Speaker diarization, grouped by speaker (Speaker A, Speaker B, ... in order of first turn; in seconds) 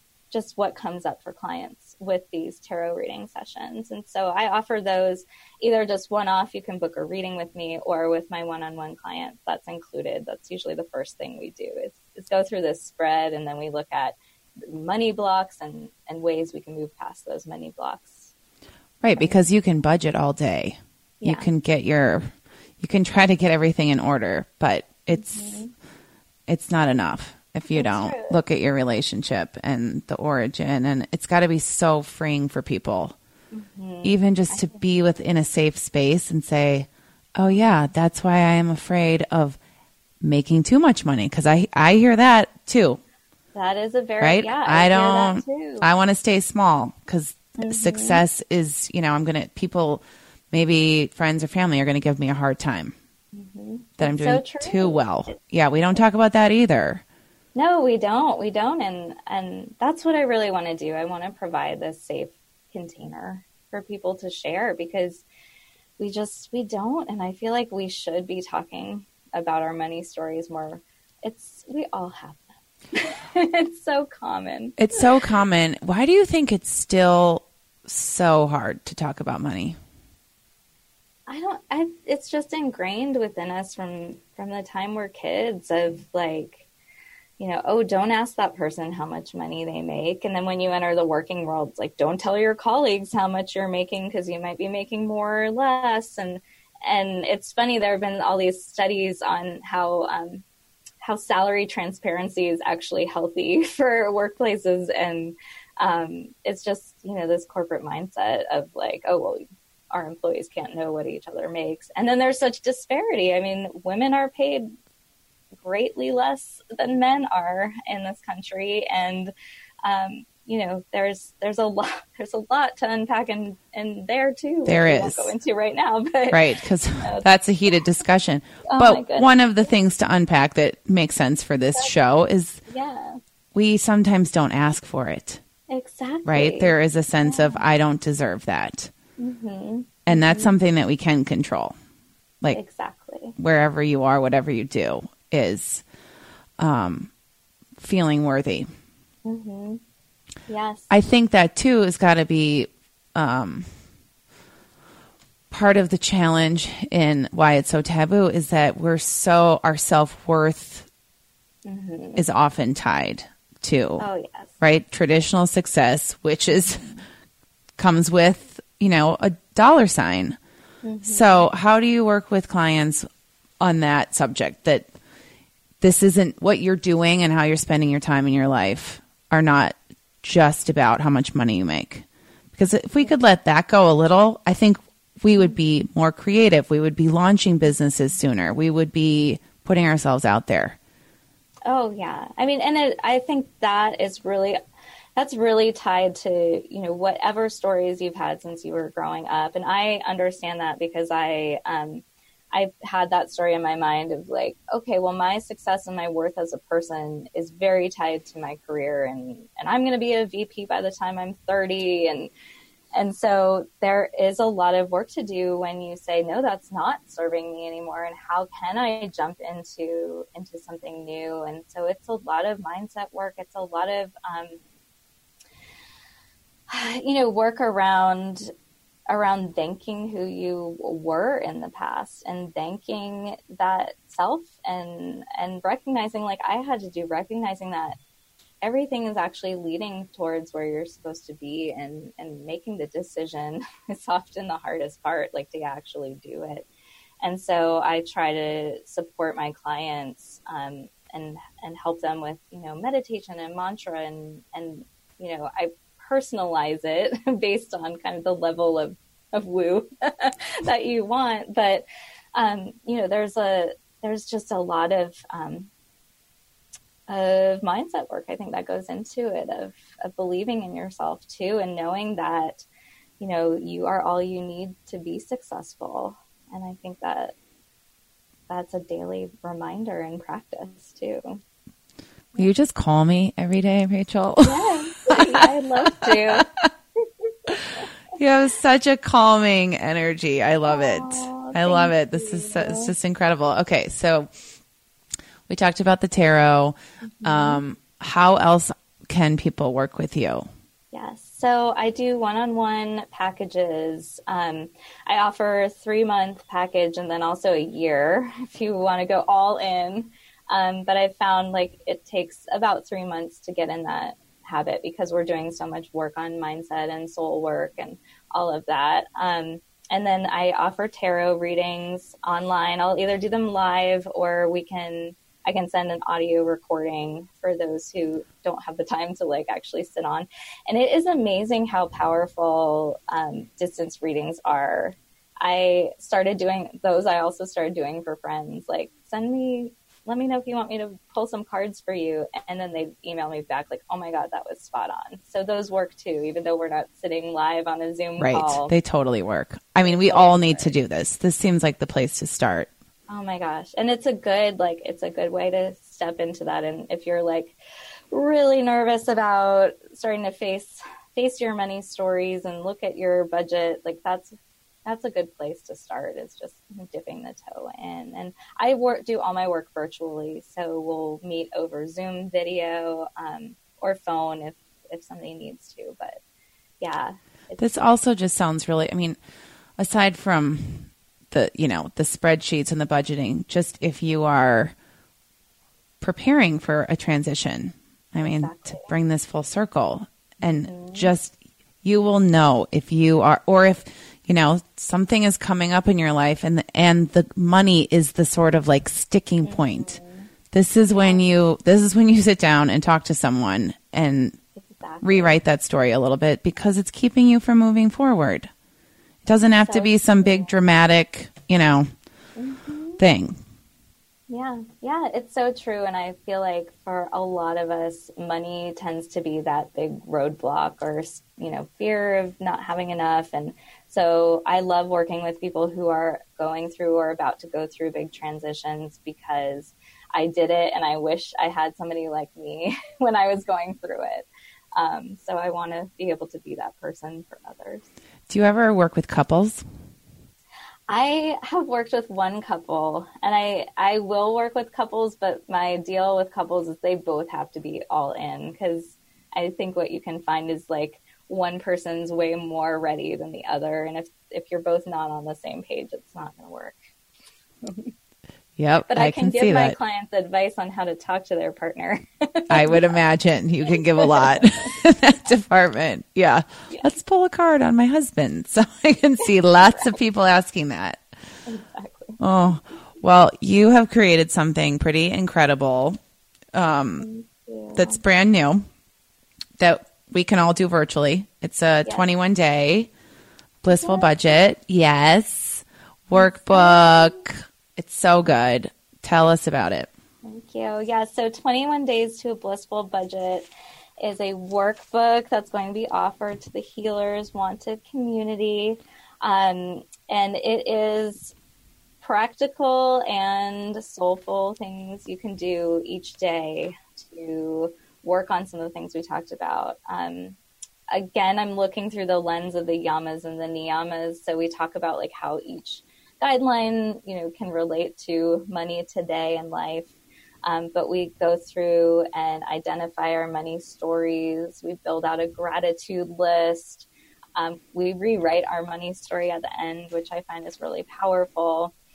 Speaker A: 0.3-18.3, 21.2-21.5, 25.1-25.7, 27.7-28.4, 33.5-34.8, 43.5-45.9, 47.6-48.2, 53.3-55.3, 57.5-65.2, 66.0-75.1, 81.3-86.7, 87.4-100.4, 101.0-114.7, 115.6-119.3, 119.8-127.2, 128.7-129.4, 132.7-133.2, 135.7-137.6, 139.2-140.5, 142.5-143.3, 149.2-149.8, 150.5-150.9, 161.6-162.2, 164.0-164.5, 170.8-171.5, 191.7-194.6, 195.2-212.3, 212.9-224.6, 226.7-228.5, 229.1-237.9, 238.6-246.7, 247.2-261.8, 262.3-265.7, 267.1-272.6, 273.2-277.3, 278.5-281.4, 284.4-286.5, 287.2-287.9, 290.6-292.9, 297.1-297.6, 300.9-348.7, 349.8-350.7, 353.1-357.6, 358.1-364.3, 364.9-376.2, 376.8-377.8, 388.2-388.9, 390.6-391.1, 399.4-400.3, 400.9-401.3, 404.6-405.3, 409.7-410.5, 412.4-413.0, 414.3-437.9, 440.9-456.8, 457.6-457.9, 458.9-463.0, 463.8-464.7, 471.4-472.2, 477.0-478.0, 483.7-484.1, 486.1-487.2, 490.2-493.5, 494.0-501.3, 502.0-510.4, 510.9-531.7
Speaker B: 19.0-25.6, 26.5-33.1, 34.0-39.6, 40.2-43.0, 44.2-52.9, 54.0-57.0, 74.8-79.8, 124.7-125.3, 126.3-132.6, 133.5-135.4, 136.2-138.9, 140.1-141.7, 143.4-145.8, 146.6-147.1, 147.8-148.7, 150.9-153.7, 155.5-160.9, 162.2-164.0, 164.6-166.9, 167.8-170.4, 171.0-173.1, 173.6-174.9, 175.8-190.8, 282.4-285.2, 288.1-294.3, 295.5-300.5, 348.2-352.7, 377.6-379.2, 379.8-384.7, 386.0-400.0, 400.5-404.4, 405.0-408.5, 409.2-411.9, 413.0-413.4, 438.3-439.6, 458.6-459.7, 462.5-471.0, 472.2-476.0, 476.5-477.1, 477.7-478.6, 479.6-482.9, 483.6-489.9